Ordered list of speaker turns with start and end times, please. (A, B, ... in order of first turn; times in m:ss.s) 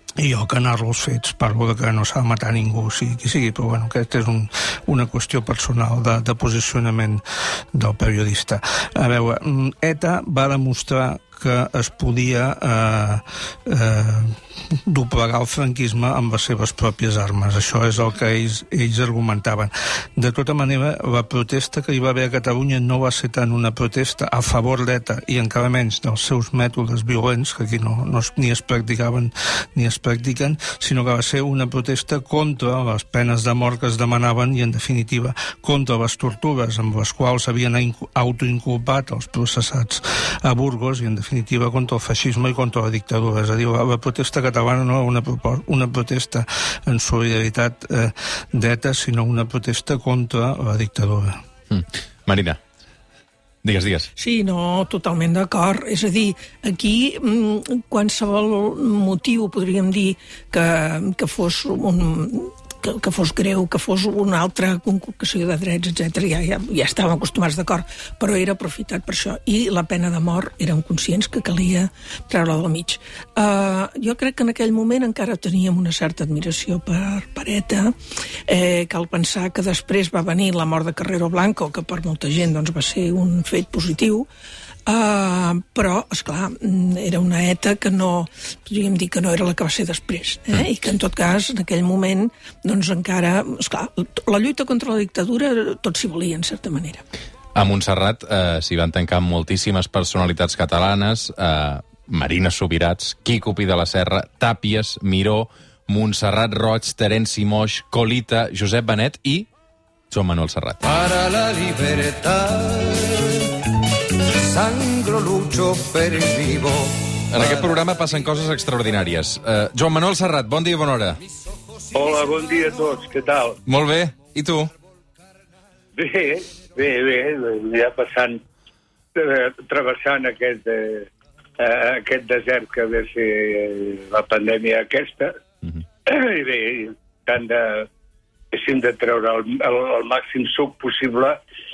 0:00.2-0:51.4 A
0:51.7-0:52.6 B
0:53.6-0:54.1 B
0:54.2-1:18.0 C
1:18.5-1:24.3 C
1:24.9-1:37.0 C
1:37.6-1:49.5 B
1:50.1-1:50.8 B
1:50.8-1:57.8 D
1:57.3-2:01.2 B
2:01.9-2:03.6 E
2:03.7-2:04.7 B
2:06.0-2:08.4 E
2:09.2-2:15.3 E
2:16.1-2:17.9 E
2:18.5-2:21.4 E